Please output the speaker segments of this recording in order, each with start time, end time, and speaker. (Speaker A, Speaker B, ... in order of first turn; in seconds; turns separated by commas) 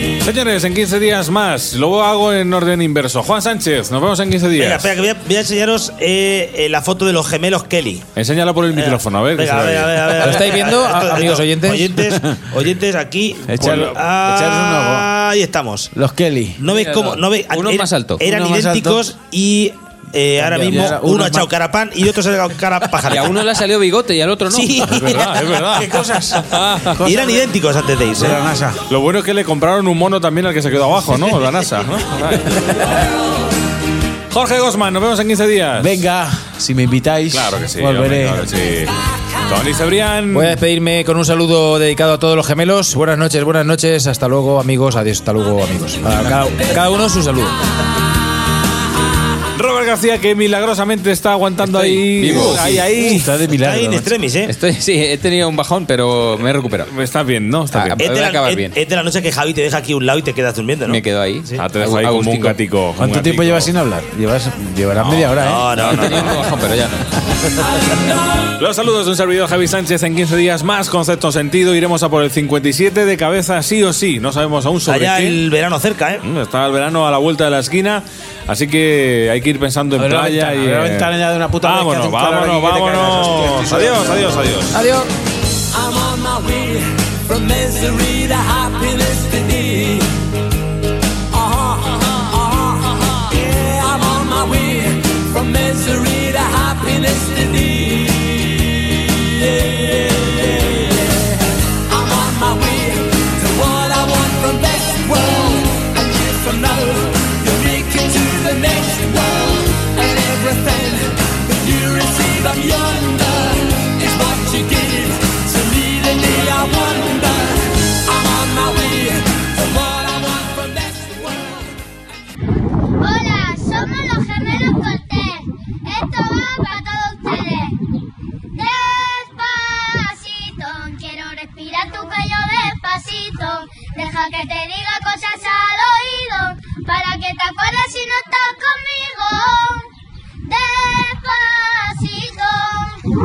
Speaker A: 0.2-4.9, Speaker B: 4.5-8.0, Speaker A: 8.2-10.5, Speaker B: 8.7-15.9, Speaker C: 10.2-12.0, Speaker D: 12.1-12.4, Speaker D: 13.5-15.1, Speaker D: 15.9-16.6, Speaker B: 16.6-23.5, Speaker E: 16.7-18.2, Speaker D: 18.2-19.1, Speaker D: 20.5-21.5, Speaker E: 23.1-25.1, Speaker B: 24.5-25.3, Speaker A: 24.9-25.9, Speaker D: 25.7-27.4, Speaker A: 26.5-27.0, Speaker B: 27.0-28.4, Speaker D: 28.2-28.8, Speaker A: 28.9-33.0, Speaker A: 34.3-36.0, Speaker D: 35.8-38.5, Speaker A: 37.3-40.6, Speaker C: 40.3-47.6, Speaker A: 49.5-53.2, Speaker E: 51.6-52.6, Speaker D: 52.4-54.1, Speaker B: 52.7-54.5, Speaker E: 54.5-56.9, Speaker A: 56.9-58.0, Speaker E: 57.7-58.8, Speaker B: 58.0-61.6, Speaker E: 60.9-62.6, Speaker A: 61.6-63.7, Speaker D: 63.0-65.7, Speaker B: 65.0-66.4, Speaker E: 65.7-67.0, Speaker A: 68.6-75.4, Speaker B: 74.8-76.2, Speaker A: 76.2-81.1, Speaker D: 80.0-84.4, Speaker A: 81.6-84.8, Speaker C: 84.8-85.0, Speaker F: 85.7-90.2, Speaker F: 91.3-121.7, Speaker G: 123.0-127.8, Speaker G: 128.5-139.9, Speaker G: 140.4-143.0